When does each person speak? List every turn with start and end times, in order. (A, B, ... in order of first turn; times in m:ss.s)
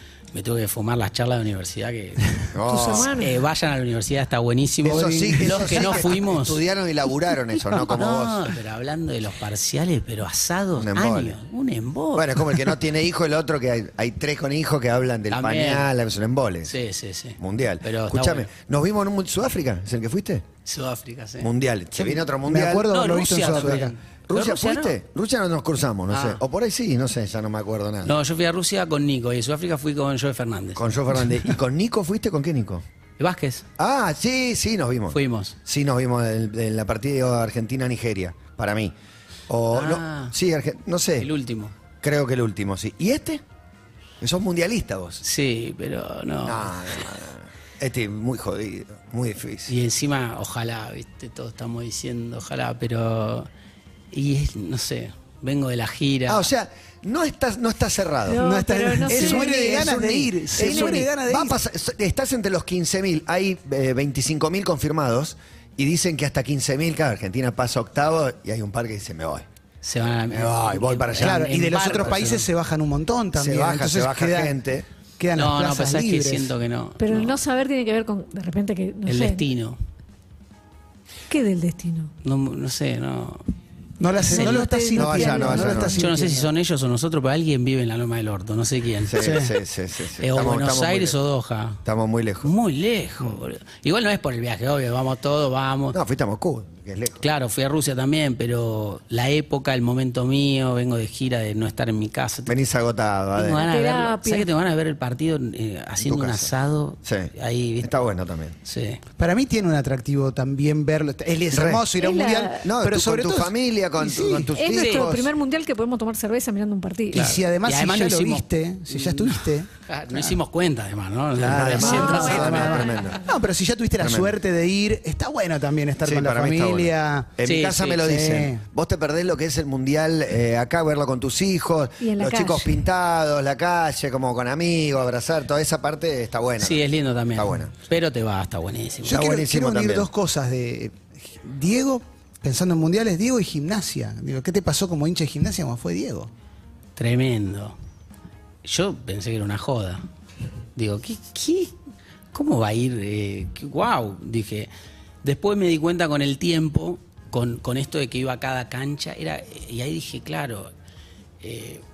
0:00.3-0:06.6 A
0:02.5-0:03.1 B
0:02.7-0:03.4 C
0:04.8-0:06.0 D
0:04.8-0:08.5 B
0:07.9-0:12.7 A
0:10.8-0:11.4 B
0:12.2-0:16.7 B
0:15.3-0:15.9 A
0:16.6-0:18.5 A
0:17.4-0:20.4 B
0:20.6-0:21.5 A
0:21.4-0:28.2 B
0:22.0-0:23.9 D
0:22.9-0:25.0 A
0:26.1-0:26.4 A
0:28.0-0:31.6 A
0:30.8-0:32.8 B
0:33.2-0:33.7 A
0:33.8-0:38.9 B
0:35.1-0:35.6 A
0:39.5-0:41.3 B
0:39.7-0:40.4 A
0:41.2-0:41.7 A
0:42.0-0:43.4 B
0:44.2-0:45.2 B
0:45.2-0:47.0 A
0:46.4-0:49.7 B
0:49.7-0:53.5 A
0:54.1-0:56.5 A
0:56.3-0:58.4 B
0:58.3-1:01.1 C
0:58.4-1:01.6 D
0:59.0-1:09.5 B
1:09.8-1:12.5 A
1:10.3-1:12.2 B
1:11.2-1:14.6 D
1:13.3-1:14.8 B
1:15.2-1:16.5 D
1:15.4-1:17.4 A
1:17.0-1:19.4 C
1:19.1-1:19.8 A
1:21.3-1:22.1 C
1:22.2-1:23.4 A
1:24.0-1:26.5 D
1:24.2-1:26.1 C
1:25.0-1:26.0 B
1:26.0-1:29.5 A
1:29.1-1:31.2 B
1:29.2-1:29.5 D
1:30.2-1:31.8 A
1:31.8-1:32.5 B
1:32.4-1:36.0 A
1:35.9-1:37.2 B
1:37.2-1:42.5 A
1:42.5-1:43.7 B
1:43.4-1:48.0 A
1:43.6-1:44.5 C
1:46.0-1:46.5 B
1:47.0-1:48.6 B
1:48.6-1:49.0 A
1:49.2-1:54.5 D
1:51.5-1:51.9 B
1:52.0-1:52.7 C
1:52.6-1:55.3 B
1:54.5-1:57.4 C
1:54.8-1:55.1 A
1:57.1-2:00.4 D
1:57.1-2:02.8 A
2:01.4-2:03.2 B
2:01.5-2:07.3 D
2:01.7-2:03.4 C
2:04.0-2:04.4 B
2:06.0-2:17.7 B
2:07.4-2:08.0 A
2:08.0-2:08.6 D
2:12.0-2:12.8 C
2:16.6-2:19.2 A
2:19.0-2:20.1 B
2:19.0-2:26.3 D
2:27.0-2:27.8 A
2:28.6-2:30.0 A
2:30.8-2:31.7 A
2:32.3-2:34.7 A
2:35.2-2:40.7 A
2:41.4-2:41.8 A